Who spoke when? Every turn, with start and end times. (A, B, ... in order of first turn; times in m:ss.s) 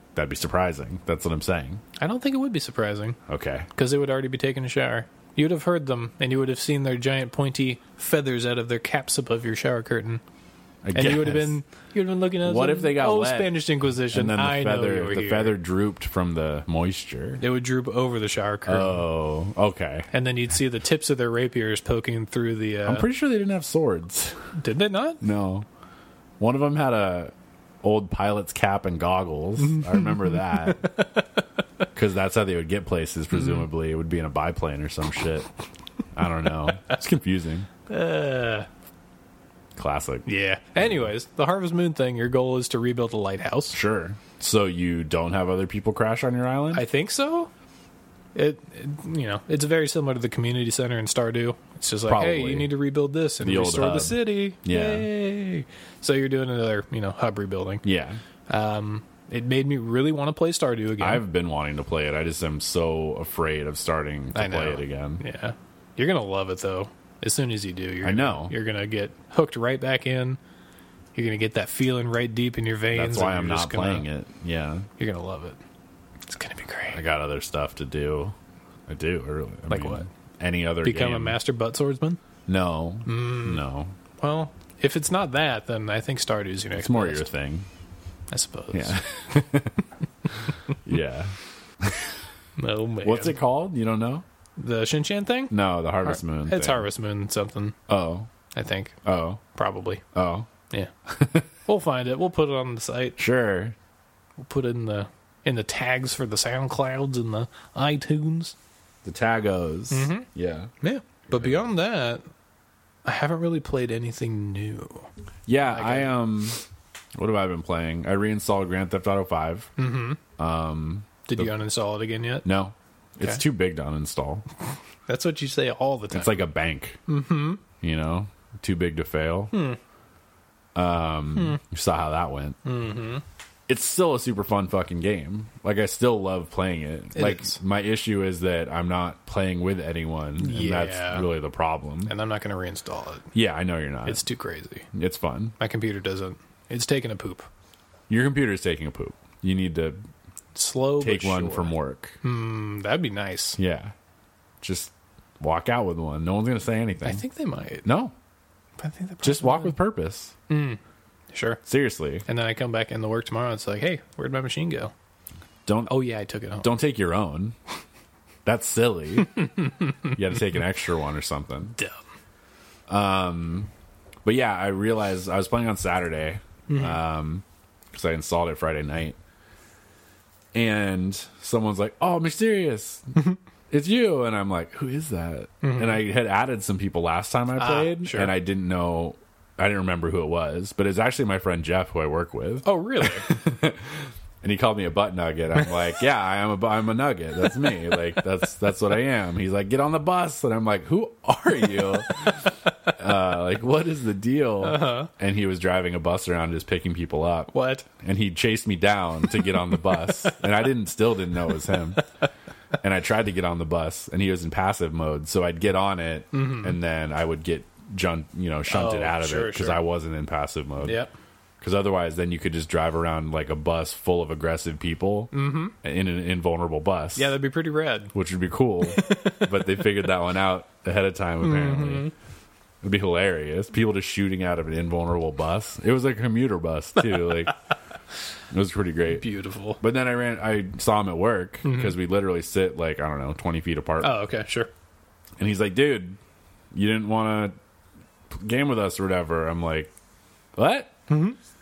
0:00.2-0:01.8 A
0:02.0-0:03.2 B
0:03.3-0:03.7 A
0:03.7-0:10.2 B
0:10.8-0:11.6 A
0:10.9-0:15.6 B
0:12.4-0:17.4 A
0:17.4-0:19.0 B
0:18.7-0:20.1 A
0:20.1-0:23.1 B
0:22.8-0:24.5 A
0:24.6-0:25.2 B
0:25.2-0:25.7 A
0:26.4-0:30.9 A
0:29.7-0:31.2 B
0:31.9-0:35.5 A
0:33.3-0:33.6 B
0:36.1-0:37.7 A
0:37.9-0:38.7 B
0:39.8-0:40.3 A
0:40.3-0:43.8 B
0:43.7-0:46.8 A
0:46.7-0:47.5 B
0:48.3-0:57.8 B
0:52.1-0:52.7 A
0:53.4-0:55.1 A
0:57.8-0:58.2 A
0:58.5-1:01.2 B
1:01.0-1:05.2 A
1:04.3-1:10.4 B
1:08.0-1:08.5 A
1:11.2-1:14.0 B
1:12.9-1:14.9 A
1:15.0-1:15.6 B
1:16.3-1:17.0 B
1:16.9-1:18.4 A
1:18.9-1:21.4 A
1:19.7-1:20.1 B
1:20.8-1:22.2 B
1:22.5-1:24.0 A
1:23.1-1:23.6 B
1:24.2-1:27.3 B
1:26.7-1:27.7 A
1:28.3-1:29.0 B
1:28.7-1:29.8 A
1:30.4-1:32.1 A
1:32.6-1:33.4 B
1:33.0-1:34.2 A
1:34.6-1:37.8 B
1:35.5-1:36.9 A
1:37.9-1:38.3 A
1:38.5-1:39.0 B
1:39.0-1:39.4 A
1:39.5-1:40.0 B
1:40.1-1:40.5 A
1:41.1-1:41.5 A
1:41.6-1:43.2 B
1:43.2-1:43.8 A
1:44.4-1:48.6 B
1:49.0-1:50.7 A
1:49.9-1:50.3 B
1:50.8-1:52.2 B
1:51.3-1:51.6 A
1:53.0-1:55.1 B
1:55.5-1:56.6 A
1:55.7-1:56.1 B
1:57.2-1:59.7 A
1:59.8-2:00.2 B
2:00.4-2:01.5 A
2:01.3-2:02.4 B
2:02.4-2:04.4 A
2:05.1-2:06.4 B
2:06.1-2:07.0 A
2:07.1-2:07.6 B
2:07.8-2:09.6 A
2:09.5-2:09.8 B
2:10.8-2:12.6 A
2:12.6-2:13.2 B
2:13.7-2:22.1 A
2:17.2-2:17.6 B
2:20.4-2:21.3 B
2:22.1-2:23.3 B
2:23.3-2:24.2 A
2:24.0-2:24.9 B
2:24.9-2:25.6 A
2:25.6-2:27.5 B
2:28.1-2:30.0 A
2:30.6-2:33.6 B
2:31.0-2:32.2 A
2:33.6-2:33.9 A
2:34.6-2:37.2 A
2:37.0-2:37.9 B
2:37.8-2:38.1 A
2:38.8-2:39.8 B
2:39.2-2:40.4 A
2:40.5-2:40.8 B
2:41.3-2:41.6 B
2:41.7-2:42.3 A
2:42.3-2:44.9 B
2:45.7-2:46.0 A
2:45.9-2:46.7 B
2:46.6-2:47.6 A
2:48.4-2:49.5 A
2:49.4-2:49.9 B
2:50.0-2:51.8 A
2:52.9-2:53.7 A
2:54.2-2:59.2 A
2:56.7-2:57.0 B
3:00.5-3:32.0 A
3:05.6-3:06.0 B
3:07.6-3:08.3 B
3:12.6-3:13.4 B
3:17.5-3:18.0 B
3:24.6-3:25.1 B
3:27.5-3:27.9 B
3:29.3-3:30.5 B
3:32.8-3:41.0 A
3:36.3-3:36.8 B
3:38.7-3:39.8 B
3:40.8-3:41.1 B
3:41.6-3:47.4 A
3:45.3-3:45.8 B
3:47.2-3:48.1 B
3:48.1-3:52.1 A
3:48.9-3:49.7 B
3:51.4-3:52.1 B
3:52.8-3:57.6 A
3:58.5-3:59.3 A
3:59.1-3:59.8 B
3:59.8-4:04.2 A
4:01.6-4:02.0 B
4:04.0-4:04.7 B
4:05.4-4:06.2 A
4:06.7-4:07.6 A
4:08.3-4:09.9 A
4:10.6-4:11.0 A
4:11.1-4:11.4 B